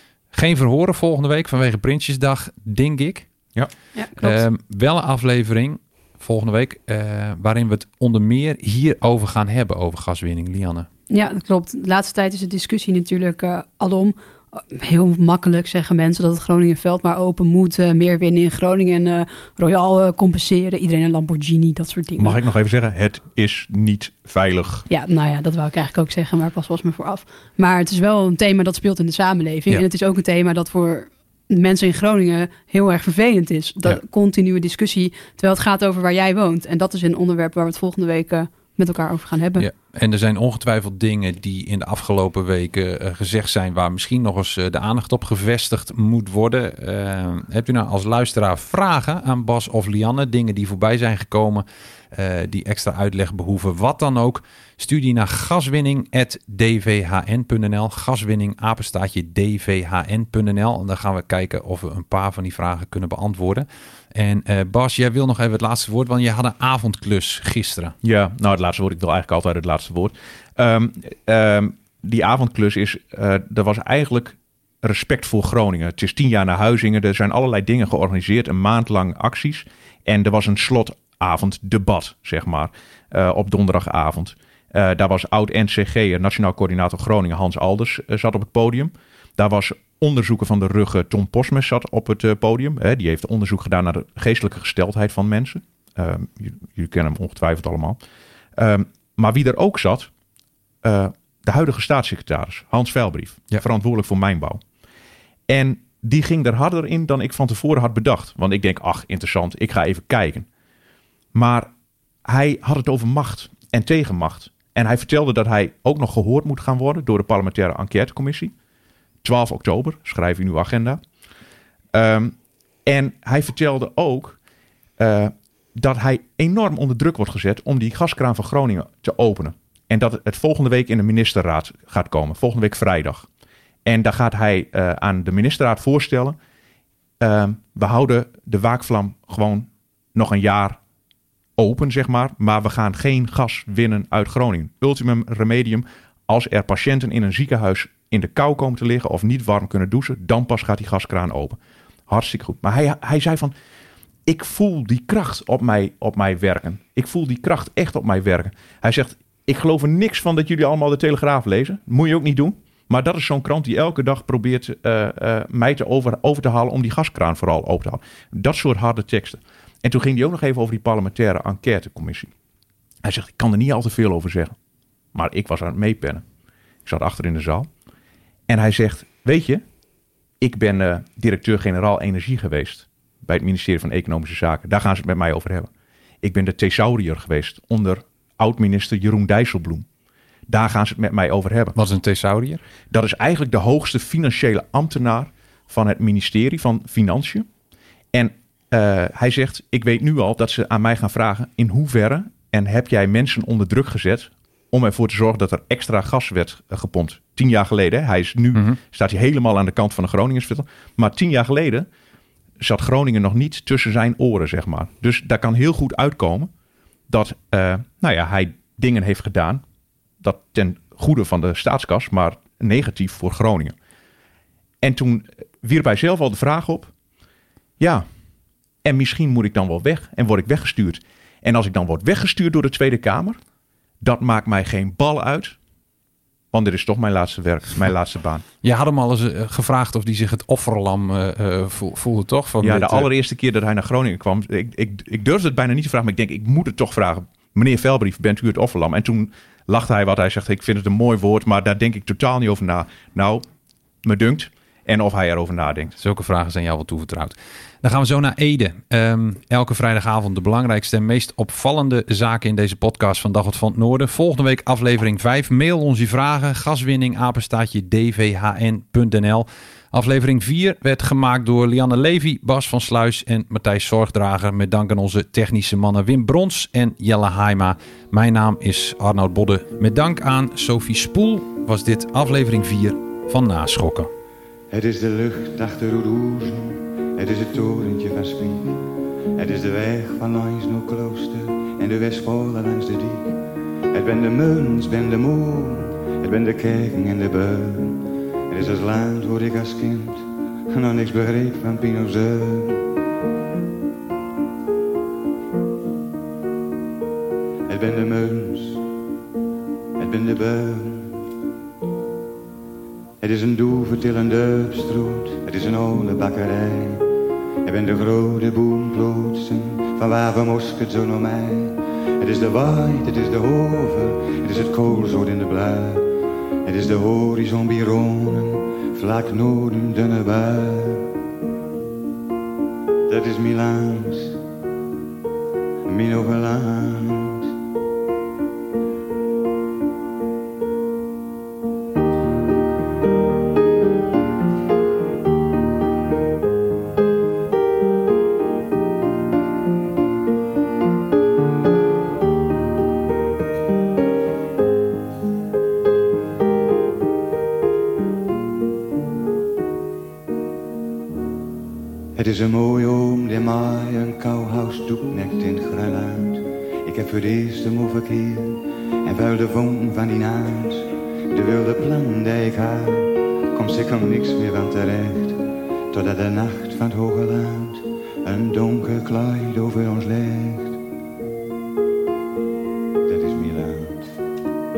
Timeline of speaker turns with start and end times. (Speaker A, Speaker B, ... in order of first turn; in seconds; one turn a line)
Speaker A: 0.3-3.3
Speaker B: 3.5-4.4
Speaker A: 4.2-10.9
Speaker C: 11.1-22.4
Speaker B: 22.2-24.9
Speaker C: 24.9-39.6
Speaker A: 39.6-68.0
Speaker B: 68.0-98.0
Speaker B: 98.5-100.1
Speaker B: 100.8-104.6
Speaker B: 105.5-110.5
Speaker B: 111.3-111.7
Speaker B: 112.2-118.5
Speaker B: 119.2-121.0
Speaker B: 121.9-124.4
Speaker B: 125.0-133.3
Speaker B: 133.8-136.4
Speaker B: 137.2-140.8
Speaker B: 141.6-153.5
Speaker B: 154.2-172.3
Speaker B: 173.0-174.5
Speaker B: 175.1-176.2
Speaker B: 176.8-177.7
Speaker B: 178.5-179.6
Speaker B: 180.4-185.7
Speaker B: 186.2-189.8
Speaker B: 190.5-191.8
Speaker A: 191.8-192.6
Speaker B: 192.9-197.5
Speaker B: 198.1-211.9
Speaker B: 212.6-216.5
Speaker B: 217.1-219.6
Speaker B: 220.2-223.7
Speaker B: 224.8-226.9
Speaker B: 227.8-228.1
Speaker B: 228.8-233.4
Speaker B: 234.0-235.6
Speaker B: 236.5-238.4
Speaker A: 238.6-243.1
Speaker B: 242.6-253.4
Speaker B: 254.0-255.9
Speaker A: 256.0-284.1
Speaker D: 284.7-302.9
Speaker D: 307.7-308.8
Speaker D: 310.0-311.2
Speaker D: 313.2-317.1
Speaker D: 317.6-331.1
Speaker D: 333.1-334.4
Speaker D: 335.8-337.5
Speaker D: 362.1-380.8
Speaker D: 383.1-384.1